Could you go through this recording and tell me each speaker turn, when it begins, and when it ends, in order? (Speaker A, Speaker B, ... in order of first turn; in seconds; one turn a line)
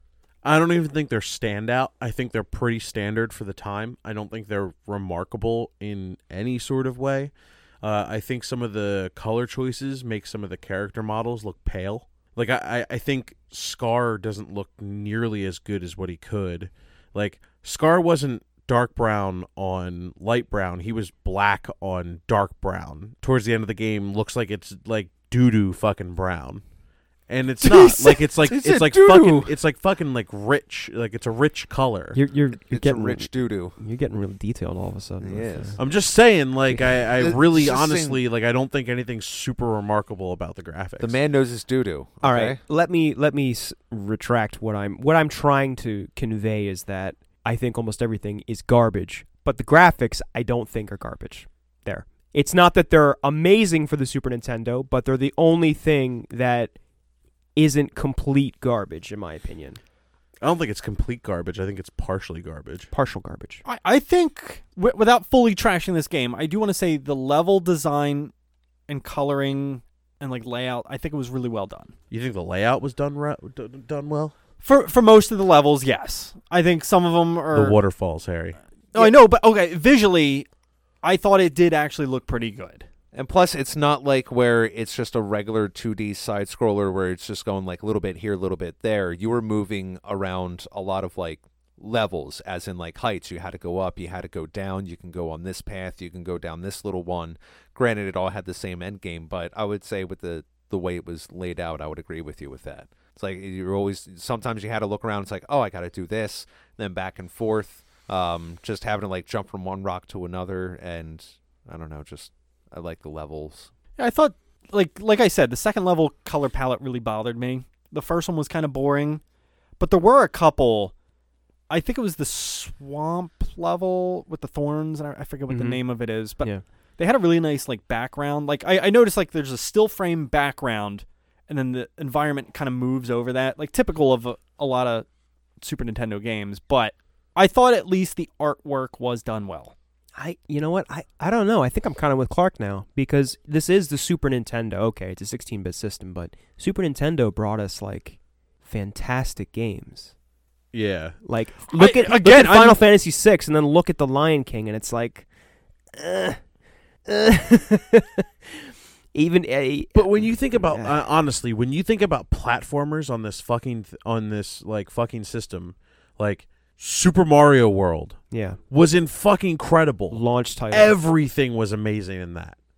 Speaker A: 0.4-26.6
Speaker A: 27.3-32.2
Speaker B: 27.6-29.5
Speaker C: 32.1-35.8
Speaker B: 32.6-33.8
Speaker B: 35.2-35.8
Speaker A: 35.8-41.1
Speaker B: 37.1-38.2
Speaker B: 41.0-42.6
Speaker C: 42.2-56.8
Speaker C: 57.5-59.8
Speaker A: 60.4-62.9
Speaker C: 62.9-63.6
Speaker D: 63.6-68.3
Speaker D: 68.9-71.9
Speaker A: 72.1-74.3
Speaker D: 74.6-77.8
Speaker A: 77.5-78.6
Speaker D: 78.9-80.5
Speaker D: 81.0-82.8
Speaker B: 83.1-113.7
Speaker D: 114.0-119.2
Speaker D: 119.8-120.9
Speaker D: 121.7-135.1
Speaker C: 125.5-126.6
Speaker D: 135.6-139.7
Speaker C: 140.2-150.1
Speaker A: 150.7-151.2
Speaker C: 151.2-155.2
Speaker D: 151.7-152.8
Speaker C: 155.9-156.4
Speaker C: 157.1-158.5
Speaker C: 159.1-161.0
Speaker A: 159.9-172.6
Speaker C: 168.3-168.6
Speaker C: 170.1-171.0